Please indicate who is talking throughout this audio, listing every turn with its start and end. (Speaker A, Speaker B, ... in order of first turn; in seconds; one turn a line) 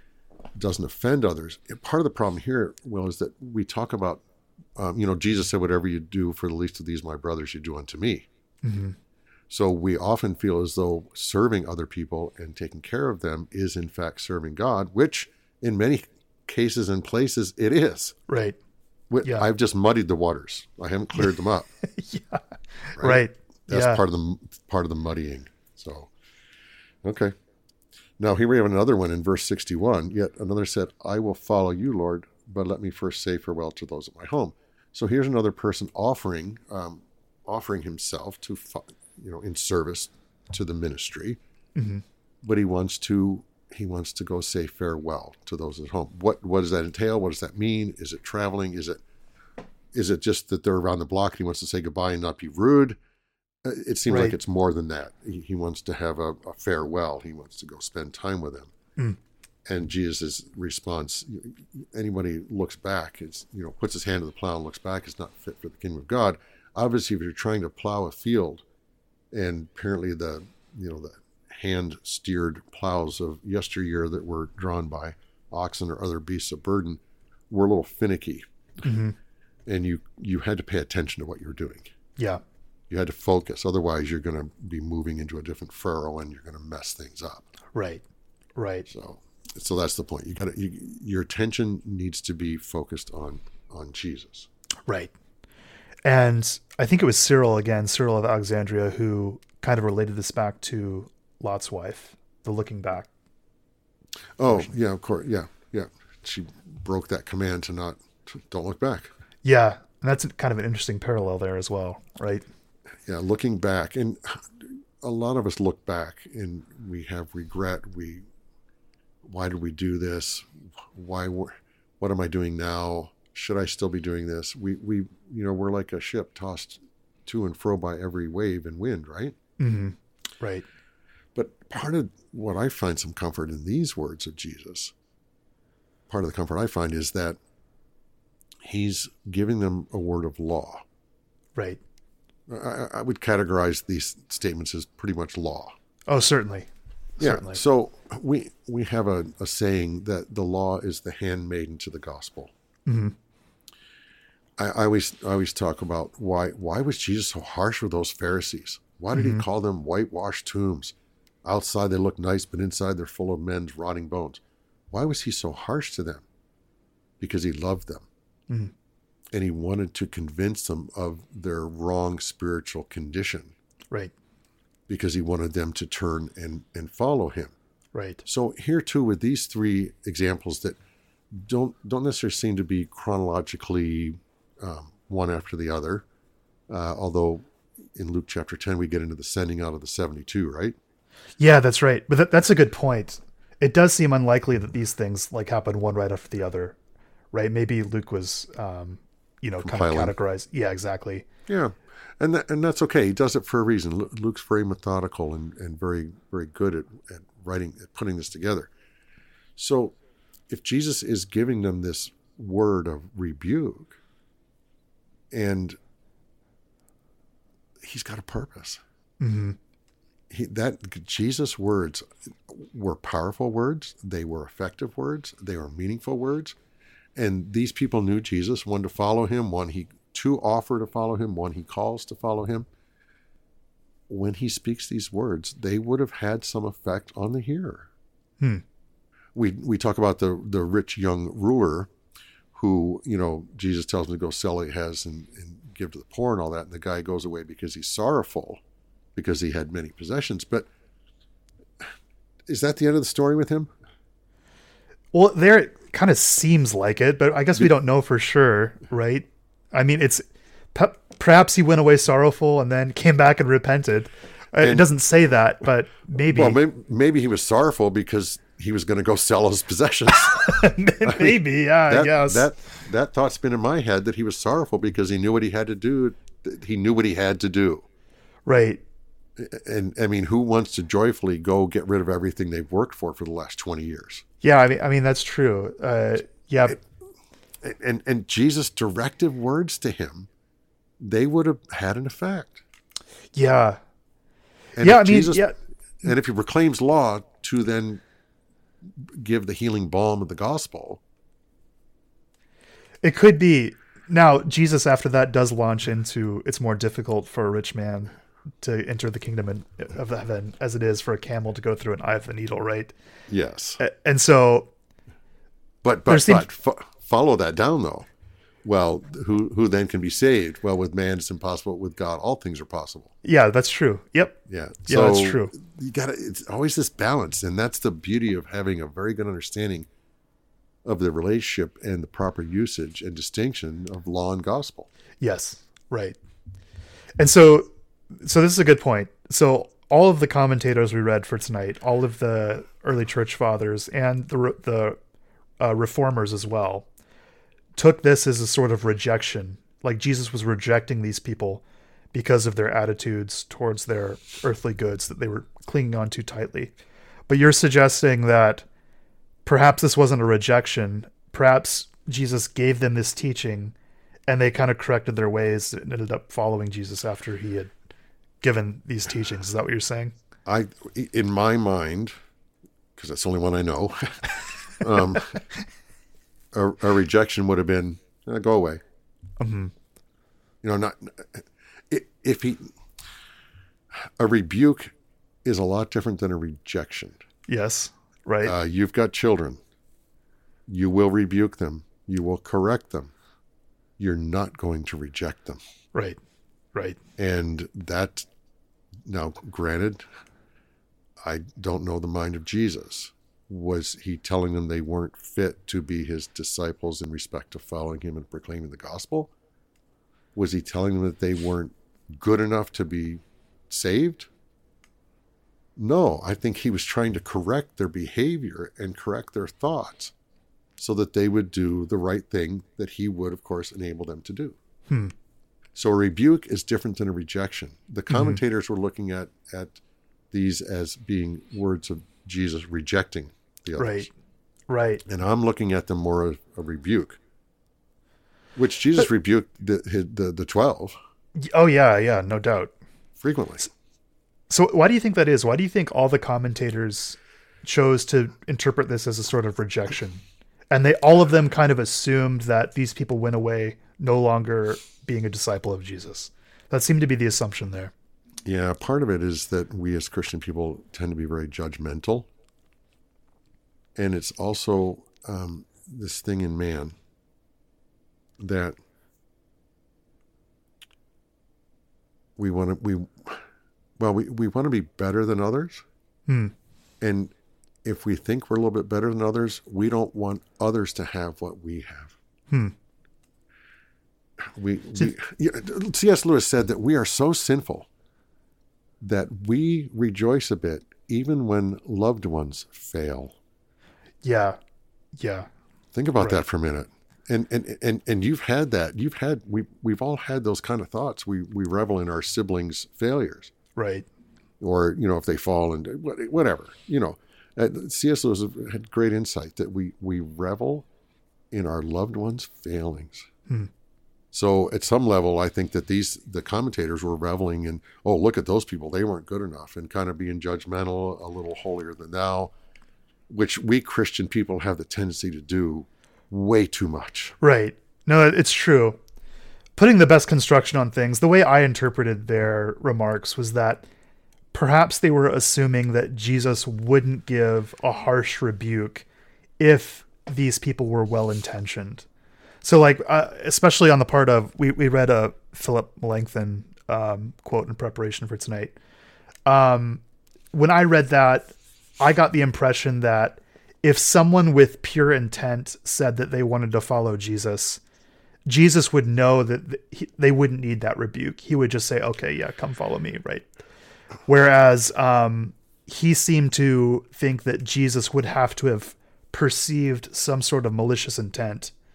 Speaker A: 0.6-4.2
Speaker A: 4.8-8.3
Speaker B: 8.6-9.0
Speaker A: 9.5-18.2
Speaker B: 18.3-18.6
Speaker A: 19.1-21.7
Speaker B: 19.2-19.5
Speaker B: 21.2-24.0
Speaker A: 23.0-26.1
Speaker A: 27.0-27.3
Speaker A: 28.2-41.4
Speaker B: 41.8-42.0
Speaker A: 42.4-49.0
Speaker A: 49.9-53.0
Speaker A: 53.6-58.7
Speaker B: 54.1-54.4
Speaker A: 59.7-68.6
Speaker A: 69.3-78.4
Speaker B: 78.8-79.2
Speaker A: 79.7-81.9
Speaker A: 82.9-87.5
Speaker B: 87.7-88.0
Speaker B: 88.6-88.9
Speaker A: 88.9-94.5
Speaker B: 94.9-95.1
Speaker B: 96.0-103.1
Speaker A: 104.4-109.1
Speaker B: 109.4-112.4
Speaker A: 113.1-118.3
Speaker A: 119.2-129.4
Speaker B: 129.6-130.7
Speaker A: 131.3-134.9
Speaker A: 136.1-137.4
Speaker A: 138.6-140.8
Speaker A: 142.5-145.8
Speaker B: 146.1-147.6
Speaker A: 147.2-152.5
Speaker B: 152.9-153.2
Speaker A: 154.6-166.3
Speaker B: 159.1-159.5
Speaker A: 167.2-168.1
Speaker A: 169.3-173.6
Speaker A: 174.9-177.6
Speaker B: 177.9-178.2
Speaker A: 178.2-180.8
Speaker A: 181.3-186.1
Speaker A: 186.7-190.8
Speaker B: 191.4-196.8
Speaker B: 197.3-201.2
Speaker A: 199.6-200.1
Speaker A: 201.5-208.7
Speaker A: 209.6-209.9
Speaker A: 210.5-214.0
Speaker A: 215.3-215.8
Speaker A: 217.8-218.8
Speaker B: 219.2-219.6
Speaker A: 220.3-226.6
Speaker A: 227.2-232.7
Speaker A: 234.1-237.9
Speaker A: 239.3-241.9
Speaker A: 242.5-248.6
Speaker A: 249.2-250.7
Speaker A: 252.5-253.7
Speaker B: 255.1-266.6
Speaker A: 264.6-264.9
Speaker A: 266.2-277.9
Speaker B: 270.3-272.5
Speaker B: 278.5-278.8
Speaker A: 279.4-284.2
Speaker B: 284.4-286.8
Speaker A: 287.6-290.3
Speaker A: 291.0-292.6
Speaker B: 293.3-293.8
Speaker A: 294.8-295.4
Speaker B: 294.8-295.6
Speaker A: 296.0-298.0
Speaker A: 298.9-301.0
Speaker B: 303.0-312.9
Speaker A: 313.3-313.8
Speaker B: 313.8-314.7
Speaker A: 315.8-318.1
Speaker B: 316.1-316.4
Speaker A: 318.6-323.1
Speaker B: 323.2-325.5
Speaker A: 324.5-329.9
Speaker A: 330.9-334.9
Speaker B: 335.2-336.2
Speaker B: 337.2-345.0
Speaker B: 345.6-346.9
Speaker B: 347.8-356.7
Speaker B: 357.3-358.6
Speaker B: 359.5-363.8
Speaker B: 364.3-367.7
Speaker B: 368.4-370.1
Speaker A: 370.5-372.1
Speaker A: 373.0-375.4
Speaker A: 376.5-378.8
Speaker B: 379.4-379.7
Speaker A: 380.6-382.8
Speaker A: 384.0-387.2
Speaker B: 387.5-388.6
Speaker A: 388.4-389.6
Speaker A: 390.7-393.1
Speaker A: 394.0-395.6
Speaker A: 397.2-398.3
Speaker A: 399.1-400.0
Speaker A: 401.2-409.3
Speaker A: 410.4-414.3
Speaker A: 415.8-420.1
Speaker A: 420.8-424.6
Speaker B: 424.9-425.1
Speaker A: 425.8-429.8
Speaker B: 428.1-428.4
Speaker A: 430.3-434.1
Speaker B: 433.8-434.1
Speaker B: 434.7-435.0
Speaker A: 435.1-437.2
Speaker A: 438.6-441.0
Speaker B: 441.4-442.7
Speaker A: 443.2-443.7
Speaker B: 444.5-457.9
Speaker A: 458.5-462.3
Speaker A: 464.0-467.0
Speaker A: 468.4-468.8
Speaker A: 472.4-473.4
Speaker A: 474.0-475.8
Speaker B: 476.3-476.5
Speaker A: 477.0-477.3
Speaker A: 477.8-482.2
Speaker A: 484.4-487.9
Speaker A: 489.0-493.4
Speaker B: 494.2-494.6
Speaker B: 495.2-495.5
Speaker A: 495.9-503.5
Speaker B: 503.8-504.1
Speaker A: 504.6-510.9
Speaker A: 511.5-513.3
Speaker A: 514.3-522.5
Speaker A: 523.3-527.4
Speaker B: 527.4-529.0
Speaker B: 529.8-533.9
Speaker B: 534.5-539.1
Speaker B: 539.6-542.1
Speaker B: 542.6-548.8
Speaker B: 549.5-550.0
Speaker B: 550.5-557.8
Speaker B: 558.5-563.5
Speaker B: 564.3-571.7